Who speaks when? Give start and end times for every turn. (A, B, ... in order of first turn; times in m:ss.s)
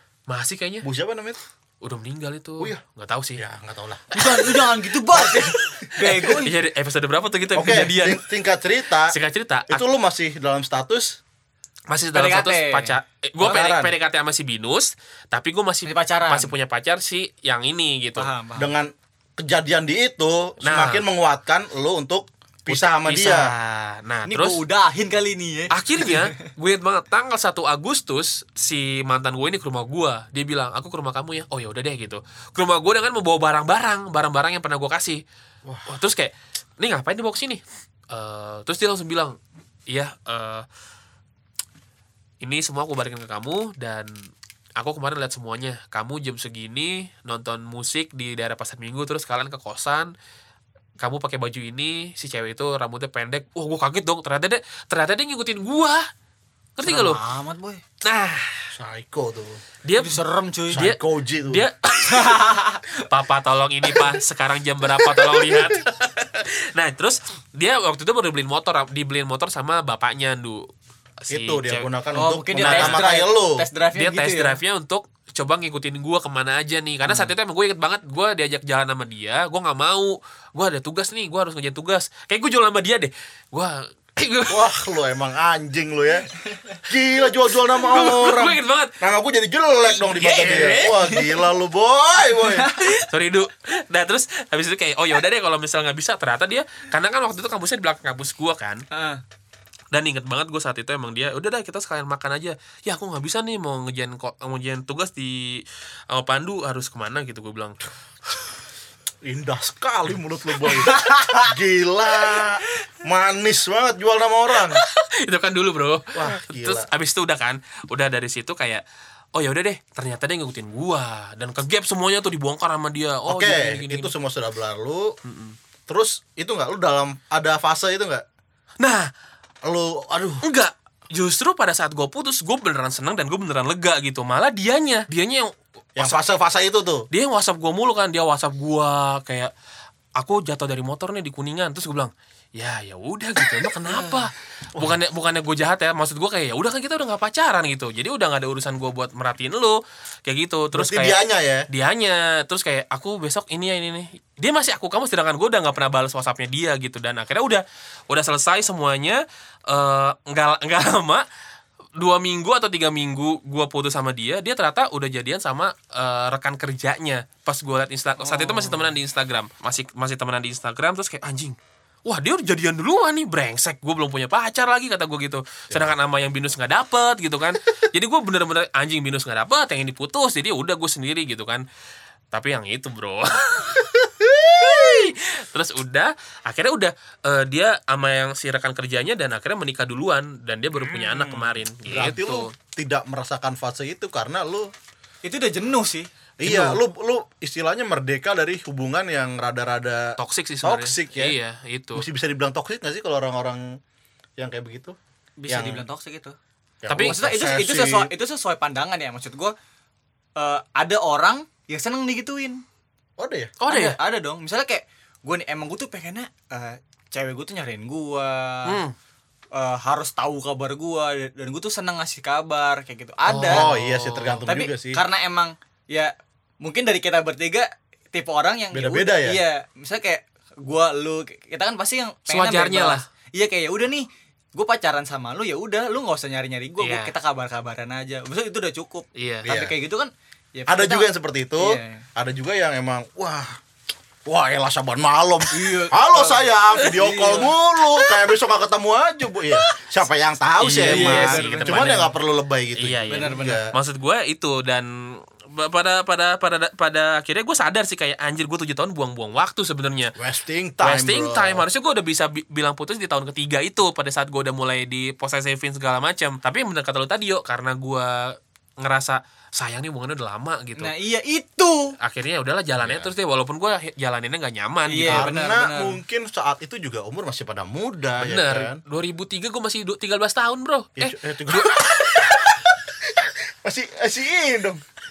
0:00.3-0:00.8 A
0:00.8-0:01.4 B
0:01.8-0:03.4 A
0:03.4-0:05.6 B
0:04.1-0:06.6 C
0:06.0-0:08.2 A
0:07.5-0:09.2 B
0:09.1-0:09.8 A
0:09.7-0:11.2 B
0:11.9-0:18.3 A
0:12.1-0:13.0 C
0:13.4-0:13.9 B
0:15.8-0:16.5 C
0:18.2-0:18.7 C
0:18.6-0:23.5 B
0:20.6-0:21.0 A
0:22.7-0:24.6 A
0:24.3-0:26.4 C
0:25.7-0:35.2 A
0:35.6-0:35.9 B
0:35.9-0:39.4 A
0:39.9-0:40.6 A
0:42.4-0:44.1 A
0:44.8-0:50.1 A
0:51.0-0:56.1 A
0:56.8-0:57.2 A
0:56.8-0:57.8 C
0:58.0-0:58.7 A
0:58.7-0:59.6 B
0:59.8-1:00.2 A
1:00.0-1:00.8 C
1:00.7-1:01.7 B
1:00.7-1:02.4 A
1:02.0-1:02.8 C
1:03.0-1:10.7 A
1:05.2-1:05.8 B
1:11.2-1:11.9 A
1:11.3-1:13.6 B
1:12.1-1:14.6 C
1:12.6-1:13.1 A
1:13.9-1:24.7 A
1:24.5-1:26.3 B
1:26.8-1:32.7 B
1:27.8-1:28.9 A
1:30.0-1:31.0 A
1:30.2-1:31.4 C
1:32.3-1:33.0 C
1:32.9-1:38.8 A
1:38.9-1:39.2 C
1:39.9-1:47.8 A
1:49.2-1:54.8 B
1:51.0-1:51.4 C
1:54.7-1:58.8 A
1:56.1-1:56.9 B
1:59.4-2:04.1 A
2:03.3-2:05.2 B
2:05.2-2:05.6 A
2:05.9-2:08.2 B
2:08.8-2:09.1 A
2:09.6-2:10.5 B
2:10.4-2:16.2 A
2:16.0-2:17.1 B
2:17.1-2:19.5 A
2:20.2-2:41.2 A
2:23.6-2:24.2 B
2:30.7-2:31.6 B
2:42.0-3:01.6 A
2:48.2-2:48.9 C
3:02.3-3:04.0 A
3:04.1-3:05.1 B
3:04.6-3:12.5 A
3:10.8-3:14.7 B
3:15.2-3:16.1 C
3:16.4-3:21.4 B
3:16.4-3:16.8 A
3:20.2-3:22.1 A
3:21.9-3:23.8 B
3:24.4-3:25.0 B
3:25.4-3:26.4 C
3:25.5-3:25.8 B
3:26.8-3:28.1 B
3:26.9-3:27.2 A
3:27.0-3:29.6 C
3:30.4-3:32.6 C
3:33.2-3:33.5 B
3:33.6-3:34.0 A
3:33.7-3:38.8 C
3:38.6-3:38.9 A
3:39.5-3:43.7 C
3:43.3-3:45.0 B
3:43.4-3:44.4 A
3:44.5-4:02.0 C
3:48.7-3:49.4 B
3:52.3-3:53.0 A
3:56.8-3:57.1 A
3:59.2-3:59.5 A
3:59.4-3:59.7 B
4:00.7-4:03.6 B
4:04.3-4:13.7 B
4:05.5-4:07.5 C
4:10.6-4:12.1 A
4:10.6-4:12.1 C
4:12.8-4:14.9 A
4:13.1-4:13.6 C
4:15.5-4:20.1 A
4:20.2-4:21.6 B
4:20.8-4:30.9 A
4:30.8-4:31.9 C
4:32.0-4:35.3 A
4:32.8-4:33.1 B
4:34.9-4:36.0 C
4:35.1-4:38.8 B
4:38.2-4:41.2 A
4:41.0-4:44.8 B